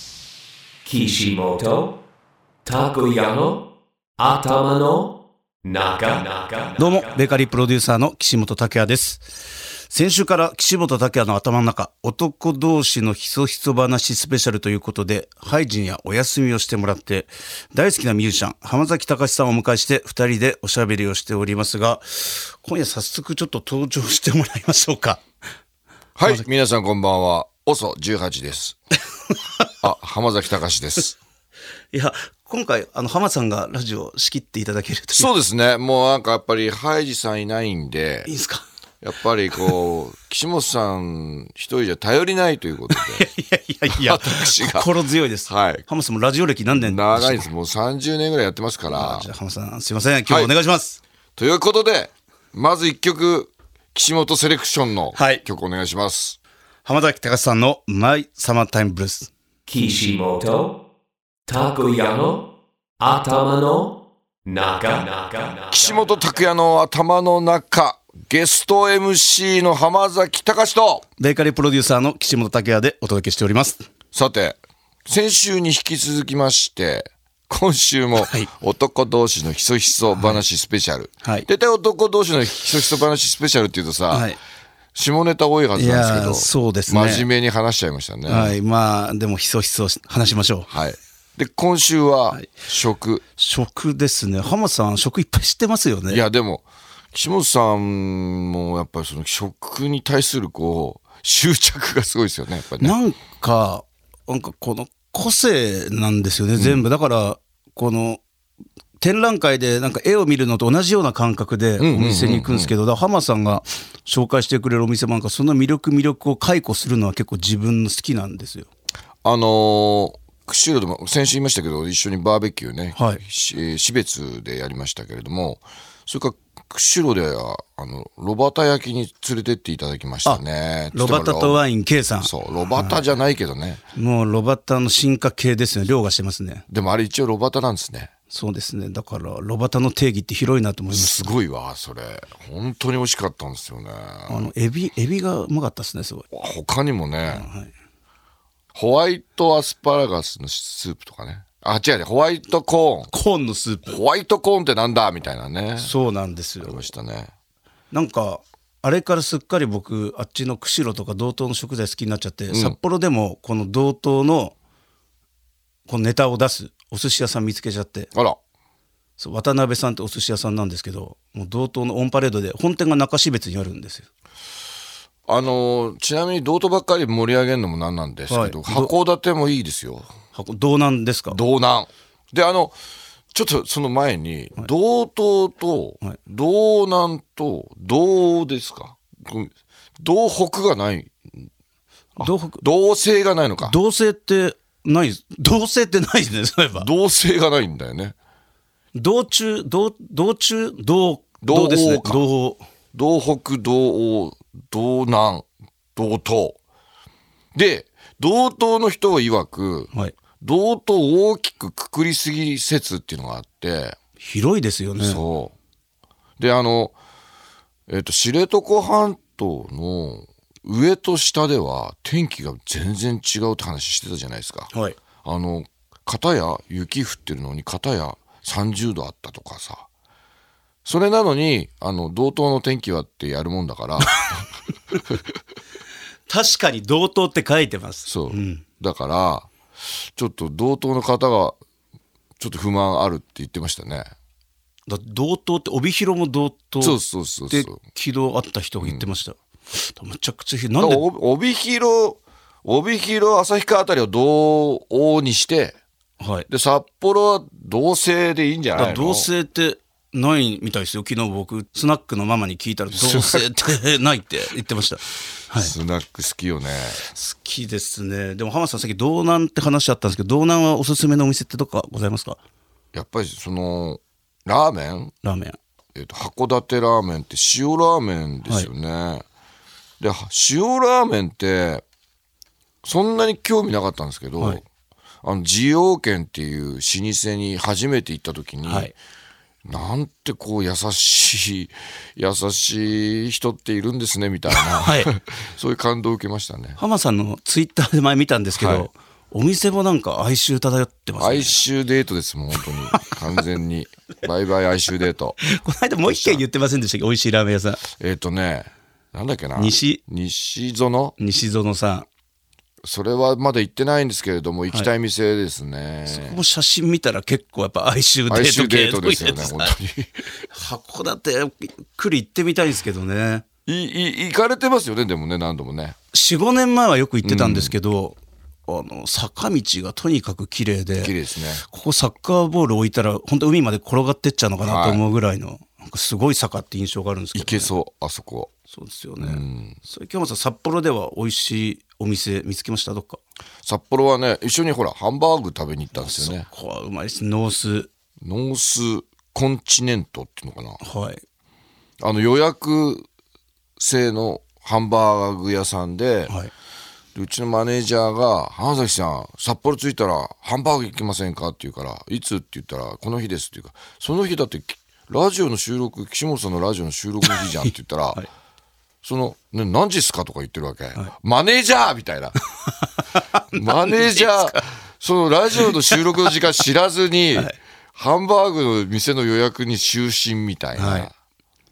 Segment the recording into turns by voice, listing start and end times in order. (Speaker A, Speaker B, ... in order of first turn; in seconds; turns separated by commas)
Speaker A: 0.8-1.9, Speaker A: 2.6-3.6, Speaker A: 4.2-5.1, Speaker A: 5.6-7.1, Speaker B: 6.8-25.2, Speaker C: 26.2-28.8, Speaker B: 29.3-29.8, Speaker C: 29.8-31.1, Speaker B: 31.9-35.3, Speaker C: 35.1-38.3, Speaker B: 38.2-38.6, Speaker C: 39.0-43.3, Speaker B: 42.9-47.5, Speaker C: 43.9-44.9, Speaker C: 45.5-45.8, Speaker C: 46.7-49.3, Speaker B: 48.9-51.0, Speaker C: 50.3-50.5, Speaker C: 51.4-56.4, Speaker B: 55.1-55.4, Speaker B: 56.8-59.3, Speaker A: 59.7-60.7, Speaker A: 61.5-62.4, Speaker A: 63.0-63.9, Speaker A: 64.5-66.3, Speaker C: 65.7-71.0, Speaker B: 71.2-73.8, Speaker C: 74.1-84.3, Speaker B: 78.2-78.5, Speaker B: 80.1-80.4, Speaker B: 84.1-84.4, Speaker C: 84.9-88.6, Speaker B: 85.7-87.3, Speaker B: 88.2-90.7, Speaker C: 90.7-93.2, Speaker B: 93.4-96.2, Speaker C: 96.1-103.0, Speaker B: 102.8-108.2, Speaker C: 106.6-106.9, Speaker B: 109.0-118.7, Speaker C: 111.8-112.7, Speaker C: 119.2-131.6, Speaker B: 122.9-123.2, Speaker B: 130.2-133.0, Speaker C: 132.2-133.8, Speaker B: 133.9-136.6, Speaker C: 136.7-138.1, Speaker B: 138.3-141.3, Speaker C: 140.9-144.5, Speaker B: 144.3-146.2, Speaker C: 146.3-147.5, Speaker B: 147.3-147.7, Speaker C: 148.7-153.1, Speaker B: 153.1-154.0, Speaker C: 153.8-155.9, Speaker B: 155.8-156.8, Speaker C: 156.6-157.3, Speaker B: 157.9-164.5, Speaker C: 162.5-162.8, Speaker B: 165.9-168.1, Speaker B: 169.2-174.1, Speaker C: 175.3-180.1, Speaker B: 178.3-178.9, Speaker B: 180.3-181.4, Speaker C: 181.3-182.8, Speaker C: 183.3-191.5, Speaker B: 192.2-192.6, Speaker C: 192.2-193.8, Speaker B: 193.6-196.9, Speaker C: 196.7-198.1, Speaker B: 198.9-202.6, Speaker C: 201.4-202.2, Speaker C: 202.9-206.6, Speaker C: 207.5-214.0, Speaker B: 214.2-215.2, Speaker C: 215.0-215.5, Speaker C: 216.4-216.9, Speaker C: 217.9-224.7, Speaker B: 224.7-225.0, Speaker C: 225.2-229.9, Speaker C: 230.8-234.5, Speaker B: 236.3-238.6, Speaker C: 238.1-239.5, Speaker C: 240.0-241.6, Speaker C: 242.4-244.1, Speaker B: 244.9-251.0, Speaker C: 246.8-247.8, Speaker C: 248.8-249.1, Speaker C: 250.8-255.7, Speaker B: 256.2-256.5, Speaker C: 256.5-259.3, Speaker B: 258.7-265.7, Speaker C: 262.9-263.5, Speaker C: 265.5-267.0, Speaker B: 267.0-272.4, Speaker C: 272.9-275.1, Speaker B: 275.2-275.6, Speaker C: 275.9-279.2, Speaker C: 280.0-281.8, Speaker C: 282.8-284.6, Speaker C: 285.2-288.9, Speaker B: 288.6-288.9, Speaker C: 289.6-296.8, Speaker B: 294.5-295.1, Speaker B: 296.8-301.6, Speaker C: 298.5-298.9, Speaker C: 301.2-305.4, Speaker B: 302.6-303.1, Speaker B: 305.4-307.8, Speaker C: 306.1-306.4, Speaker C: 307.9-311.1, Speaker B: 309.5-310.0, Speaker B: 311.2-312.1, Speaker C: 312.8-316.4, Speaker B: 316.1-319.8, Speaker C: 318.3-320.2, Speaker B: 320.5-323.4, Speaker C: 323.6-325.9, Speaker B: 326.1-337.7, Speaker C: 327.2-327.7, Speaker C: 331.0-331.6, Speaker C: 334.6-335.0, Speaker C: 337.3-338.5, Speaker B: 338.7-343.2, Speaker C: 339.2-339.8, Speaker C: 343.6-346.5, Speaker B: 345.9-347.9, Speaker C: 348.2-350.8, Speaker B: 350.8-351.2, Speaker C: 352.0-353.0, Speaker C: 353.8-356.3, Speaker C: 357.1-368.2, Speaker B: 367.3-368.3, Speaker C: 369.0-372.4, Speaker B: 373.1-374.6, Speaker C: 373.5-381.1, Speaker B: 375.6-376.3, Speaker B: 380.7-381.1